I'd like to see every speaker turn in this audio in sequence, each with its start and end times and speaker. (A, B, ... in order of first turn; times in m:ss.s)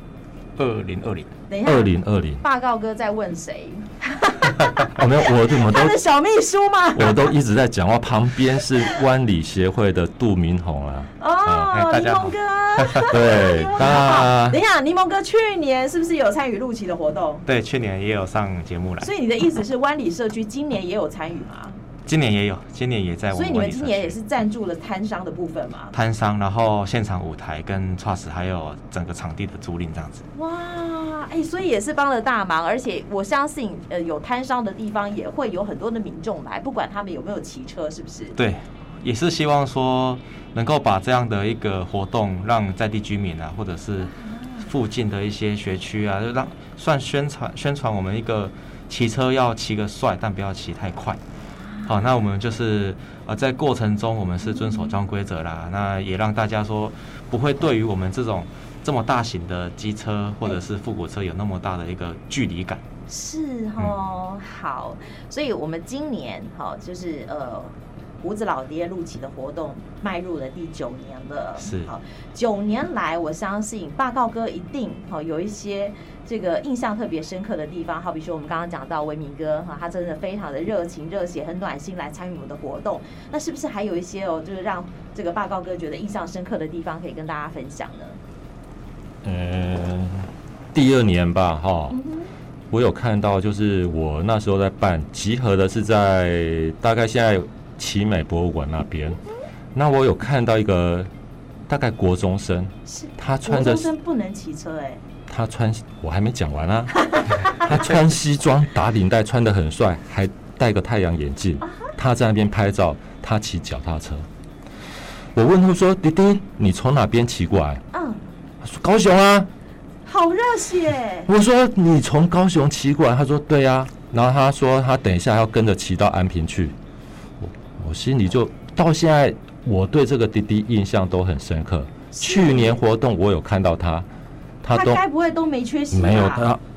0:00.6-0:01.3 A
0:01.5-0:07.3 B
0:01.6-0:02.4 C
0:04.9-0:06.0 C
0:06.9-0:11.7 C
0:11.2-0:17.4 B
0:11.7-0:13.2 A
0:13.0-0:14.6 C
0:17.4-0:19.1 A
0:19.0-0:21.8 B
0:22.0-0:24.2 A
0:23.3-0:25.9 B
0:25.9-0:30.2 A
0:30.3-0:38.4 B
0:38.4-0:51.2 A
0:44.1-0:44.6 B
0:51.6-0:51.9 B
0:51.8-1:02.8 A
0:54.4-0:55.0 B
1:03.1-1:28.2 B
1:11.6-1:11.9 A
1:29.2-1:32.0 C
1:31.9-1:32.3 B
1:32.7-1:39.2 C
1:39.7-1:41.1 C
1:41.7-1:43.9 C
1:42.9-1:45.0 B
1:45.3-1:54.3 C
1:47.1-1:47.6 B
1:55.4-1:57.8 C
1:57.9-1:58.2 B
1:58.6-1:59.5 C
2:00.0-2:01.3 B
2:01.3-2:06.8 C
2:07.4-2:14.1 C
2:12.1-2:12.8 B
2:14.6-2:15.0 C
2:14.7-2:16.5 B
2:15.9-2:16.6 C